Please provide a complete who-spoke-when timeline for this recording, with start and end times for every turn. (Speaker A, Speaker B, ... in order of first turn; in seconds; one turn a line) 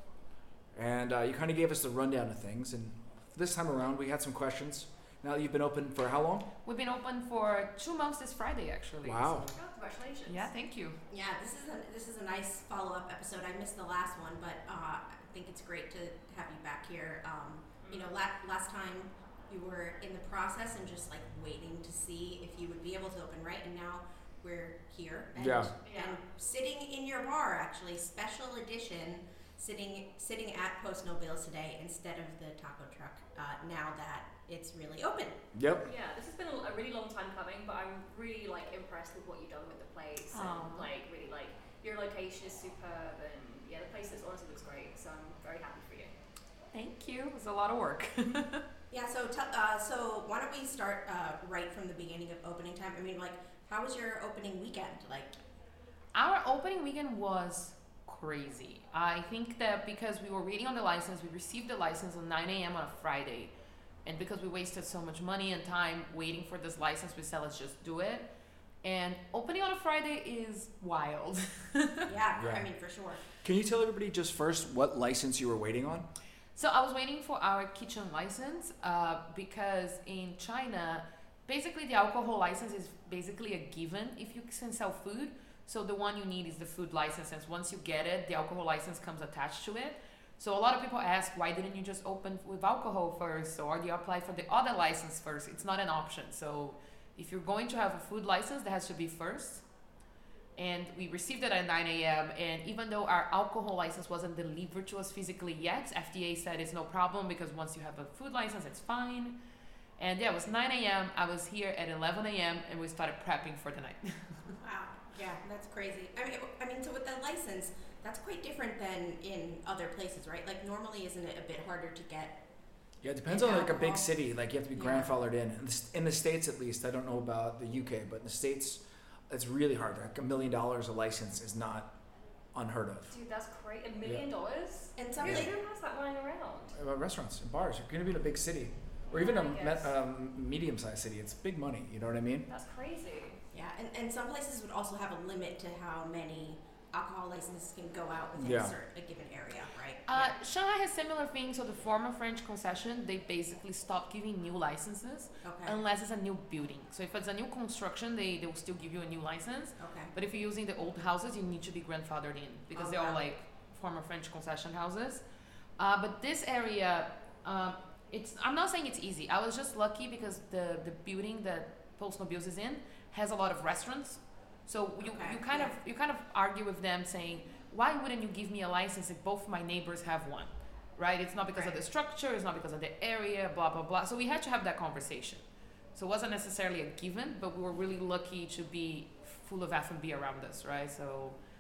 Speaker A: 0.7-6.5
Speaker B: 6.7-9.6
Speaker A: 9.0-9.5
Speaker C: 9.5-10.5
Speaker B: 10.3-11.0
Speaker D: 11.1-35.4
Speaker C: 17.8-18.1
Speaker A: 25.4-25.7
Speaker C: 25.8-26.2
Speaker A: 35.5-35.9
Speaker C: 35.9-46.1
Speaker B: 40.3-40.9
Speaker B: 46.7-48.6
Speaker D: 48.9-55.4
Speaker B: 56.1-63.5
Speaker B: 64.0-68.3
Speaker B: 68.8-72.1
Speaker D: 72.1-73.2
Speaker A: 72.4-72.7
Speaker A: 73.4-76.1
Speaker B: 76.6-99.7
Speaker B: 100.6-109.3
Speaker B: 110.0-114.5
Speaker D: 114.6-122.4
Speaker A: 123.0-131.9
Speaker D: 123.3-124.1
Speaker D: 124.8-125.1
Speaker A: 132.5-133.2
Speaker C: 133.1-136.8
Speaker D: 135.0-135.5
Speaker A: 135.2-135.5
Speaker A: 136.8-142.5
Speaker C: 139.1-139.9
Speaker C: 142.5-143.4
Speaker D: 143.5-150.3
Speaker A: 148.4-148.7
Speaker B: 150.1-165.2
Speaker D: 155.4-155.8
Speaker D: 159.8-160.1
Speaker D: 162.7-163.2
Speaker B: 165.8-185.4
Speaker D: 175.0-175.7
Speaker B: 185.9-191.4